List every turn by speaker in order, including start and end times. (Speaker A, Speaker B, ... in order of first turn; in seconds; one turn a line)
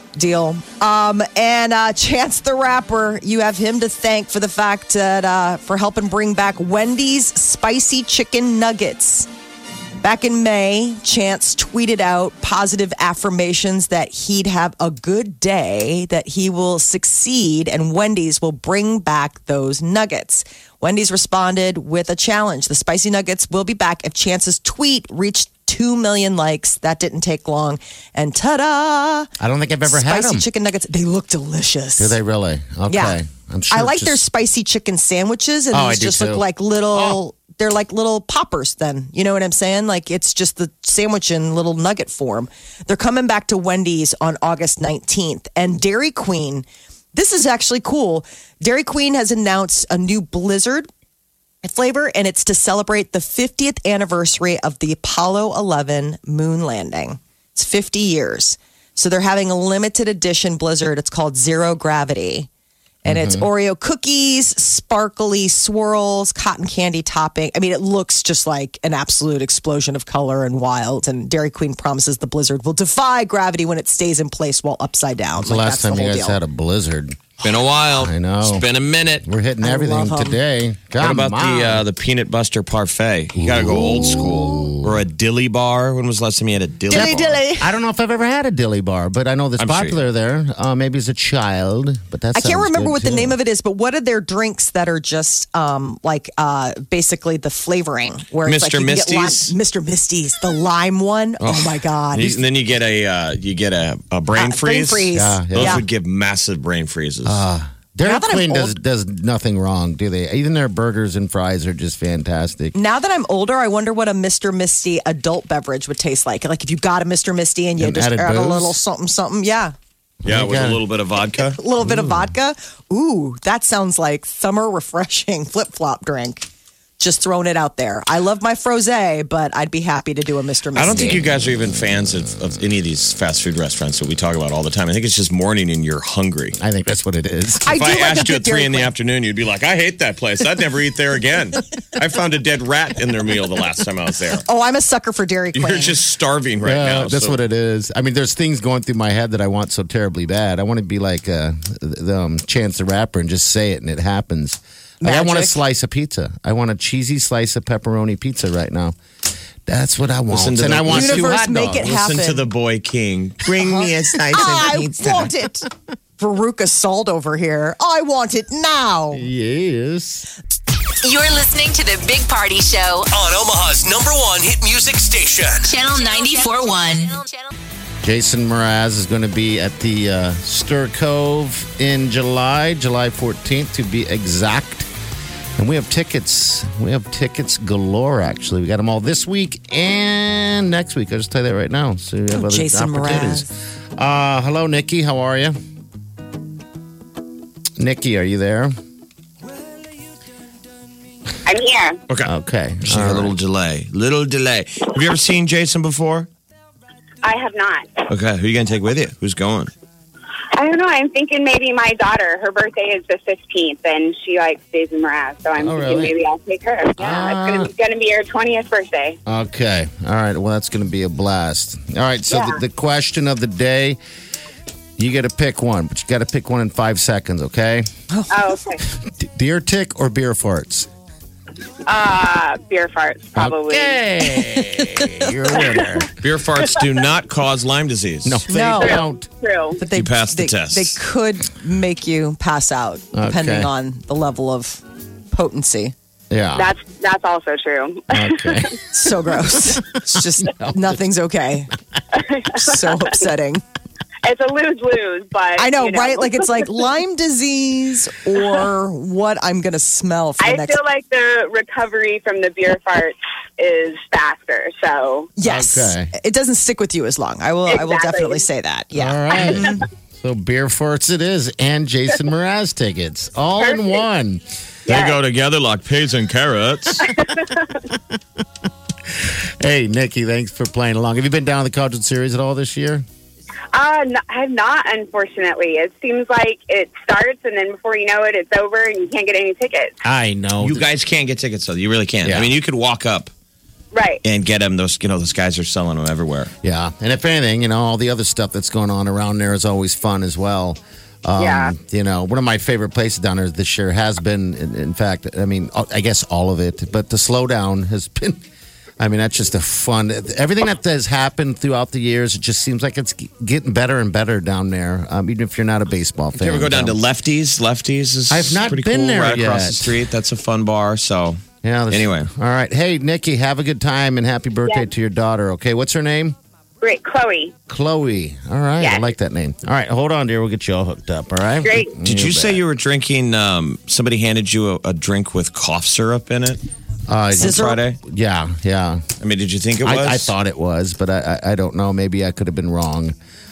Speaker A: 0.1-9.3
Speaker A: 10.0-29.3
Speaker B: 29.4-30.5
Speaker A: 29.9-32.2
Speaker B: 32.0-34.2
Speaker A: 32.9-33.2
Speaker A: 33.7-50.9
Speaker B: 35.7-37.2
Speaker A: 51.6-62.5
Speaker B: 63.0-63.5
Speaker A: 63.0-76.4
Speaker B: 75.4-77.4
Speaker C: 77.4-79.3
Speaker B: 77.9-78.7
Speaker B: 79.2-81.8
Speaker A: 79.6-80.4
Speaker C: 81.0-87.4
Speaker B: 83.4-85.0
Speaker A: 86.9-87.7
Speaker B: 87.0-93.4
Speaker C: 89.6-90.0
Speaker A: 92.3-102.4
Speaker C: 98.5-99.5
Speaker C: 101.4-107.4
Speaker A: 104.3-105.8
Speaker B: 105.2-105.8
Speaker B: 107.2-112.8
Speaker A: 108.0-108.8
Speaker A: 112.8-119.7
Speaker B: 117.8-118.8
Speaker B: 120.2-120.8
Speaker C: 120.3-121.6
Speaker A: 121.5-126.5
Speaker B: 121.8-122.3
Speaker A: 127.0-131.3
Speaker C: 130.8-136.6
Speaker B: 136.6-137.7
Speaker A: 137.6-138.9
Speaker C: 137.7-144.4
Speaker A: 144.4-146.0
Speaker C: 145.5-147.4
Speaker B: 146.6-159.0
Speaker A: 155.0-155.6
Speaker B: 159.7-161.9
Speaker C: 160.3-165.3
Speaker A: 160.9-162.5
Speaker A: 163.7-165.7
Speaker A: 166.2-169.2
Speaker B: 169.1-170.3
Speaker D: 171.0-173.1
Speaker E: 173.1-175.7
Speaker D: 175.7-177.5
Speaker B: 178.0-184.9
Speaker B: 185.6-195.6
Speaker A: 192.3-193.5
Speaker B: 197.8-198.7
Speaker F: 201.4-202.0
Speaker B: 202.2-203.3
Speaker C: 202.8-206.3
Speaker F: 207.2-208.0
Speaker C: 208.1-209.7
Speaker F: 210.5-219.2
Speaker B: 215.6-216.2
Speaker B: 217.0-217.7
Speaker B: 219.3-224.0
Speaker F: 222.3-222.6
Speaker B: 225.0-227.9
Speaker A: 228.1-228.4
Speaker F: 228.3-228.8
Speaker B: 228.9-230.9
Speaker F: 231.9-234.5
Speaker B: 233.4-236.1
Speaker F: 235.5-236.0
Speaker C: 236.2-238.4
Speaker B: 238.2-239.3
Speaker A: 238.5-239.0
Speaker F: 238.8-239.8
Speaker A: 239.8-245.9
Speaker C: 239.9-241.0
Speaker B: 243.1-243.7
Speaker B: 246.3-246.7
Speaker F: 246.6-248.8
Speaker B: 248.1-248.8
Speaker A: 248.9-251.7
Speaker B: 250.5-251.0
Speaker F: 252.1-253.2
Speaker A: 252.6-253.6
Speaker F: 254.2-256.7
Speaker A: 255.6-260.8
Speaker F: 260.4-265.3
Speaker A: 265.4-269.9
Speaker B: 265.4-266.1
Speaker F: 267.7-268.4
Speaker B: 268.9-274.4
Speaker F: 269.3-269.7
Speaker F: 273.6-274.0
Speaker F: 274.9-275.2
Speaker C: 274.9-277.1
Speaker F: 277.0-277.8
Speaker B: 279.1-283.1
Speaker F: 283.7-290.0
Speaker B: 290.0-290.9
Speaker C: 290.6-293.3
Speaker B: 292.2-292.5
Speaker F: 293.9-294.2
Speaker C: 294.2-296.5
Speaker B: 296.6-308.4
Speaker F: 301.4-301.7
Speaker B: 309.0-317.0
Speaker C: 316.4-322.3
Speaker B: 318.3-320.0
Speaker B: 321.6-326.4
Speaker F: 326.8-327.5
Speaker B: 327.7-332.6
Speaker F: 328.8-329.1
Speaker F: 331.6-331.9
Speaker C: 332.0-336.6
Speaker B: 337.1-339.1
Speaker C: 337.4-338.0
Speaker A: 337.4-337.8
Speaker C: 339.2-340.3
Speaker B: 339.8-343.1